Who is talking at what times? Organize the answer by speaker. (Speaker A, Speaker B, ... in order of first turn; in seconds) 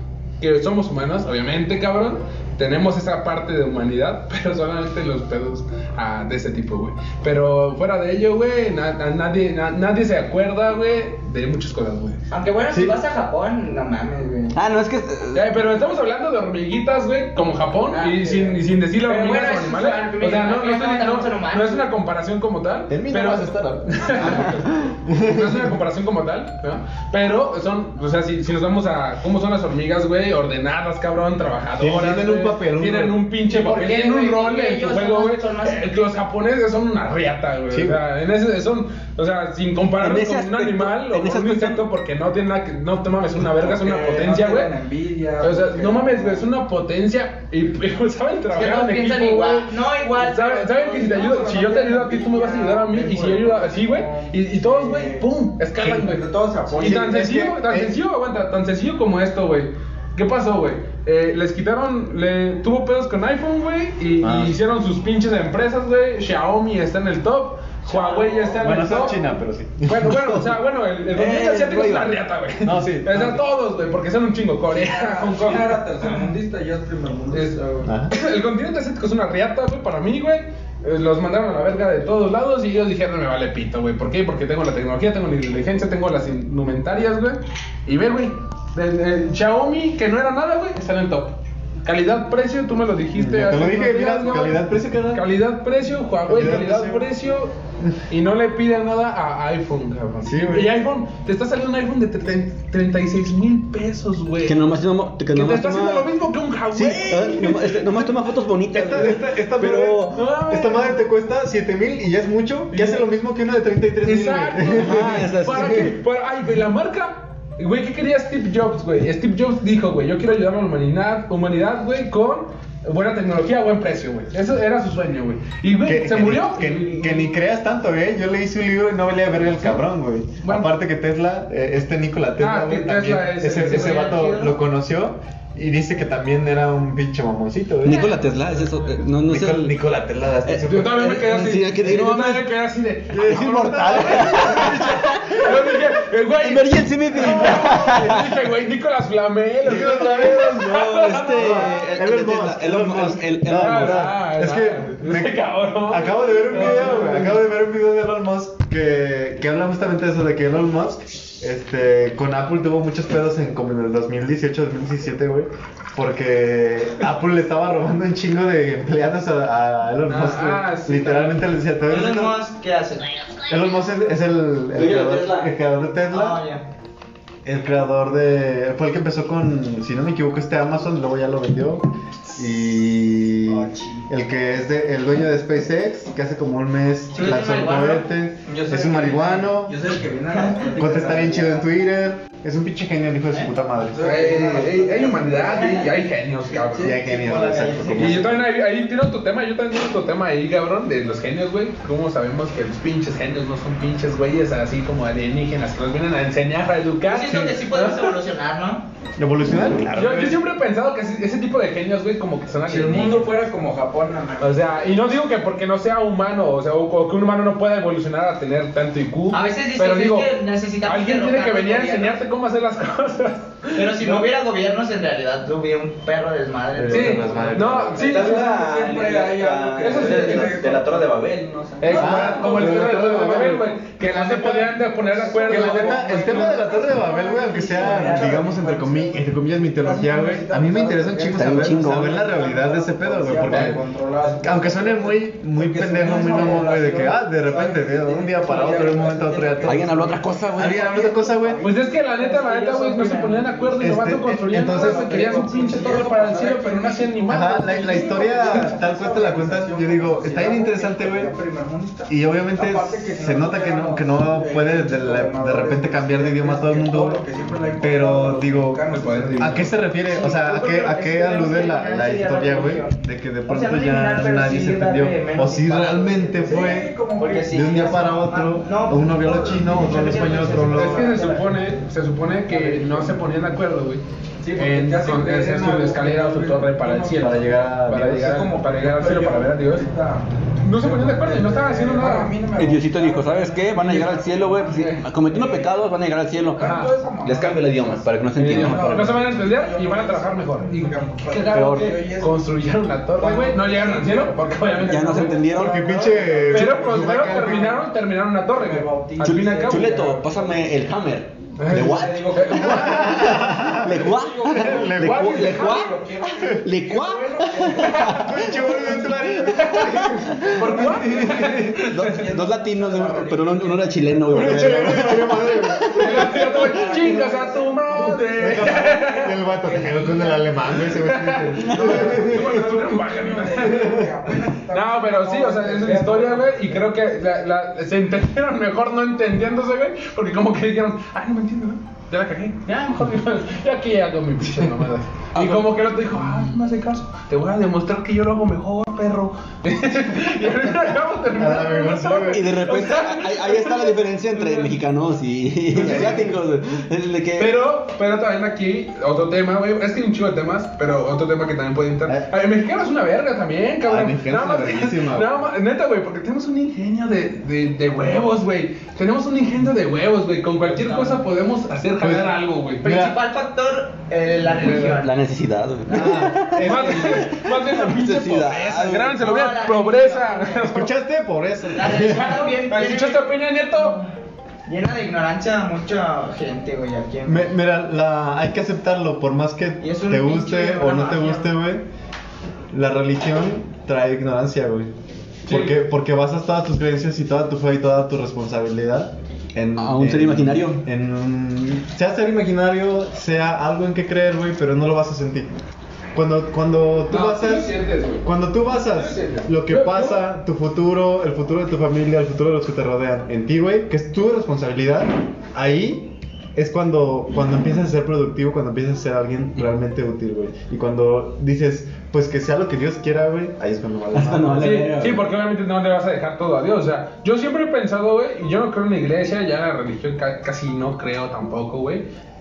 Speaker A: 0.4-12.2, 15.3-44.7, 45.4-56.2, 56.8-69.1, 69.8-75.9, 77.3-97.5, 98.1-104.6, 105.3-108.1, 110.1-111.0, 112.7-113.1, 114.0-127.3, 130.4-130.7, 132.4-134.3, 140.6-151.8, 153.4-157.4, 170.1-171.5, 194.0-197.0, 198.0-208.2, 209.9-213.4, 214.4-224.2, 226.9-228.6, 229.8-230.6, 231.8-236.6, 243.5-243.8, 251.6-258.2, 268.9-269.7, 280.7-284.0, 284.6-289.9, 290.6-292.4, 296.6-296.9, 298.4-305.4, 306.5-310.2, 311.6-313.8, 314.5-316.1, 317.6-318.8, 319.4-322.2, 325.9-330.1, 330.8-334.1, 334.7-354.8, 355.8-356.3, 357.4-372.9, 374.6-374.9, 376.1-380.9, 381.9-384.0, 395.5-395.8, 407.1-408.3, 408.8-410.2, 424.6-432.1
Speaker B: 12.3-14.6, 17.9-21.9, 33.5-35.9, 48.5-50.8, 133.6-134.6, 171.9-173.1, 176.1-176.6, 183.5-184.1, 187.2-191.5, 195.5-195.9, 197.1-198.3, 207.1-208.9, 219.3-222.2, 223.7-227.8, 270.0-281.3, 370.7-371.2, 372.8-375.1, 379.2-380.7, 381.8-384.1, 384.7-387.5, 389.8-391.5
Speaker C: 12.7-13.0, 22.9-25.8, 31.8-33.2, 37.7-38.0, 56.8-57.9, 64.2-64.6, 68.6-70.5, 72.6-73.4, 77.8-78.2, 93.2-95.2, 96.3-97.1, 100.2-100.8, 108.7-115.9, 125.8-138.4, 138.9-141.2, 143.1-145.6, 147.2-147.6, 149.6-172.5, 173.5-176.4, 177.4-189.8, 190.7-194.0, 196.8-198.5, 209.2-210.4, 226.7-228.2, 231.9-234.7, 235.4-243.9, 244.4-251.6, 253.8-255.3, 257.3-261.4, 262.1-267.2, 267.8-281.1, 287.1-288.3, 305.6-307.8, 312.6-314.1, 314.6-315.5, 318.2-321.8, 324.3-326.6, 328.3-332.9, 333.6-334.1, 351.3-352.5, 355.7-356.4, 362.1-362.3, 363.9-365.4, 372.0-373.2, 375.9-377.3, 380.6-382.4, 387.2-391.9, 392.7-394.9, 395.5-405.5, 406.1-424.9
Speaker D: 14.5-15.5, 24.2-24.6, 40.0-41.9, 71.1-72.2, 104.4-106.1, 106.7-110.2, 114.8-115.9, 137.8-139.8, 140.5-142.5, 143.2-145.8, 146.4-148.3, 149.9-154.1, 174.7-175.5, 228.0-233.6, 237.8-238.2, 241.3-242.2, 249.6-251.1, 292.5-299.2, 301.5-301.9, 304.9-306.0, 309.2-315.9, 316.6-318.7, 320.0-320.6, 321.9-327.0, 331.6-332.3, 345.4-345.7, 352.3-357.5, 374.7-379.2, 399.8-400.9, 424.1-425.2
Speaker E: 43.4-46.5, 50.7-55.3, 55.9-57.1, 67.9-68.9, 74.7-77.9, 189.7-191.6, 193.9-195.9, 196.6-197.8, 212.6-214.6, 228.1-233.6, 235.2-239.3, 239.8-253.8, 254.6-269.8, 276.4-278.1, 280.6-281.7, 282.5-283.2, 284.4-287.4, 288.1-295.8, 296.6-302.4, 303.2-307.8, 308.5-310.7, 311.7-319.2, 321.1-325.1, 325.9-330.4, 332.0-336.8